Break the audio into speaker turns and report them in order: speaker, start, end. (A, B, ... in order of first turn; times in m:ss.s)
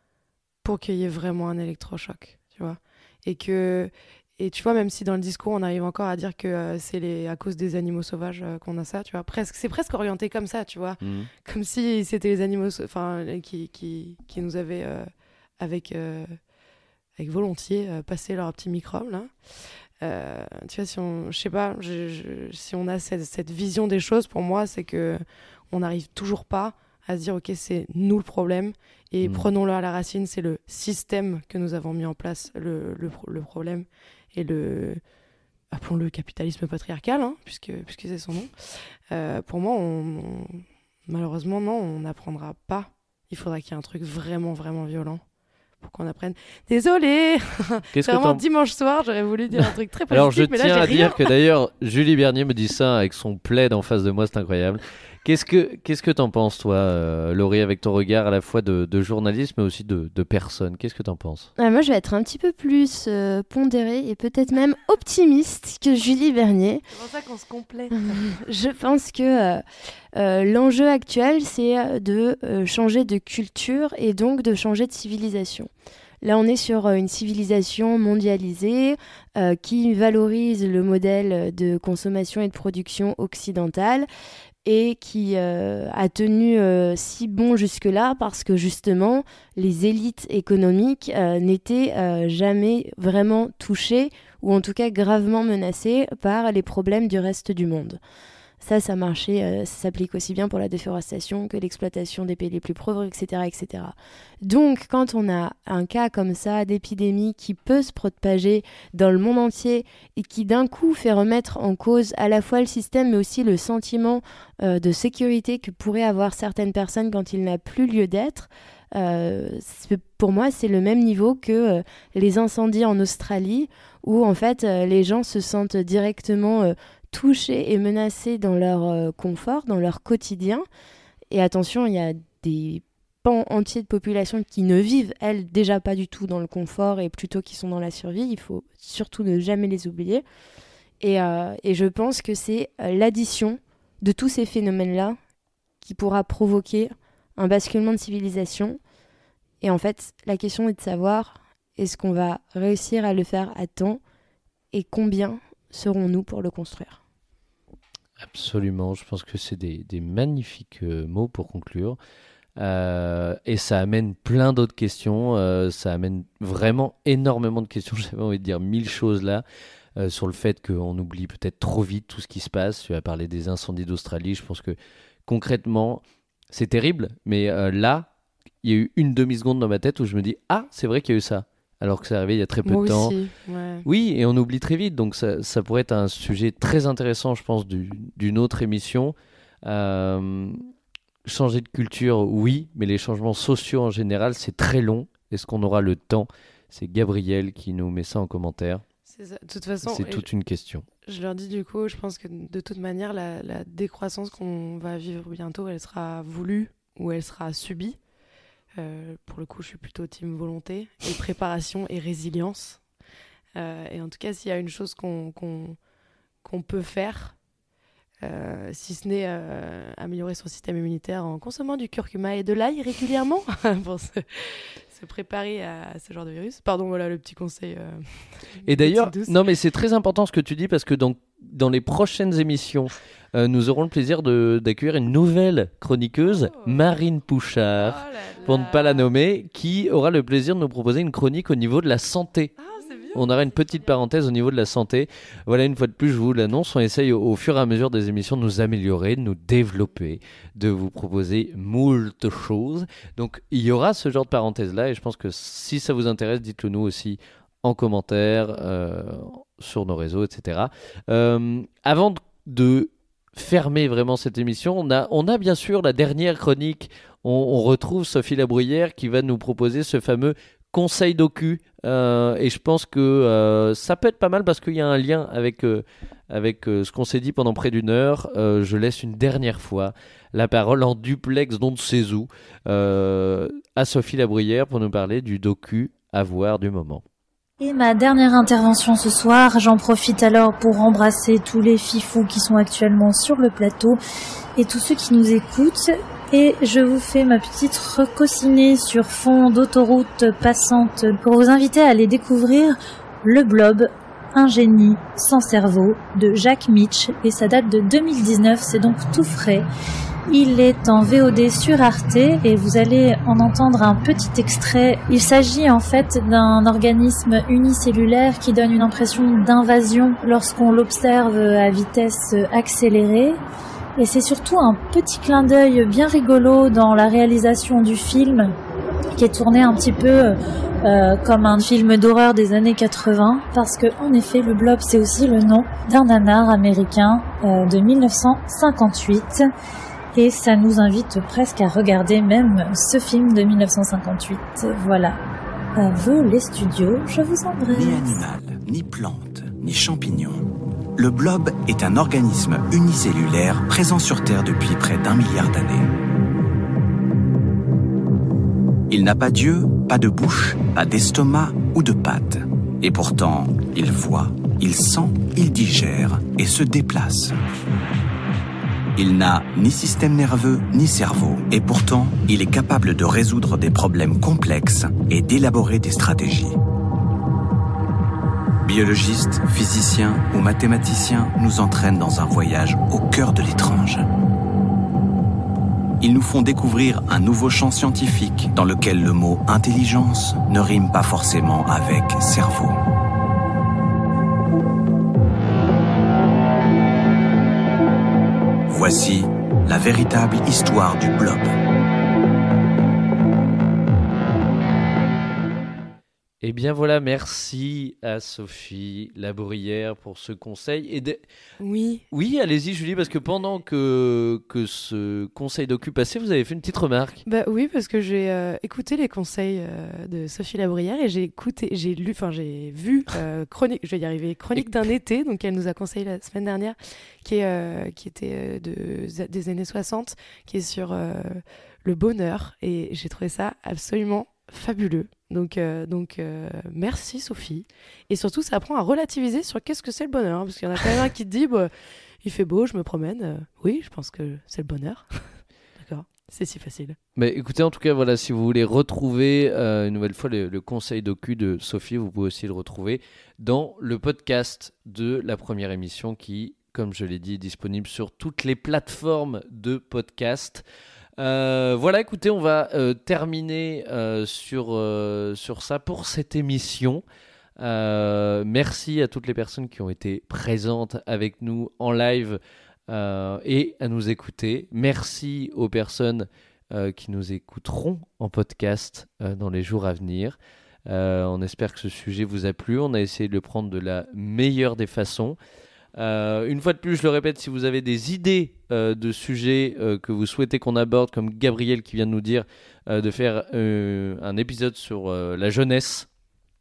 0:00.6-0:16.4 A
0:11.0-0:11.3 B
0:17.2-0:19.3 A
0:20.0-0:35.0 A
0:35.7-0:38.5 A
0:39.1-0:45.2 A
0:45.8-0:51.3 A
0:47.9-0:48.4 B
0:49.6-1:01.5 B
1:01.6-1:06.8 C
1:06.9-1:08.3 A
1:07.9-1:09.6 C
1:10.1-1:15.7 C
1:16.2-1:24.1 C
1:24.6-1:38.0 C
1:38.6-2:10.6 C
2:11.3-2:20.2 C
2:21.0-2:25.2 C
2:25.8-2:28.8 C
2:29.6-2:34.0 C
2:34.7-2:37.0 C
2:38.2-2:42.0 B
2:42.6-2:49.4 B
2:50.0-2:58.1 B
2:58.6-3:03.1 B
3:02.6-3:03.8 A
3:03.8-3:10.6 B
3:11.2-3:18.8 B
3:19.1-3:20.2 A
3:19.8-3:20.8 B
3:21.0-3:28.0 A
3:28.8-3:32.8 A
3:33.6-3:35.8 A
3:36.4-3:37.4 A
3:38.2-3:49.4 A
3:48.6-4:02.5 B
3:56.3-3:56.9 A
3:57.8-3:59.0 A
4:02.6-4:03.4 A
4:03.1-4:47.0 B
4:47.6-4:54.0 D
4:54.6-5:09.7 D
5:10.3-5:23.4 D
5:24.0-5:28.5 D
5:29.1-5:39.5 D
5:40.1-5:45.2 D
5:45.8-5:48.1 D
5:47.7-5:55.9 E
5:58.9-6:07.4 E
6:09.0-6:16.6 E
6:18.6-6:24.0 E
6:26.0-6:32.8 E
6:38.7-6:41.5 E
6:46.4-6:51.2 B
6:51.6-6:52.0 A
6:52.1-6:57.2 B
6:57.2-7:21.7 A
7:22.2-7:27.0 A
7:27.2-7:40.6 B
7:41.2-7:47.0 B
7:47.6-8:05.4 B
8:06.0-8:16.1 B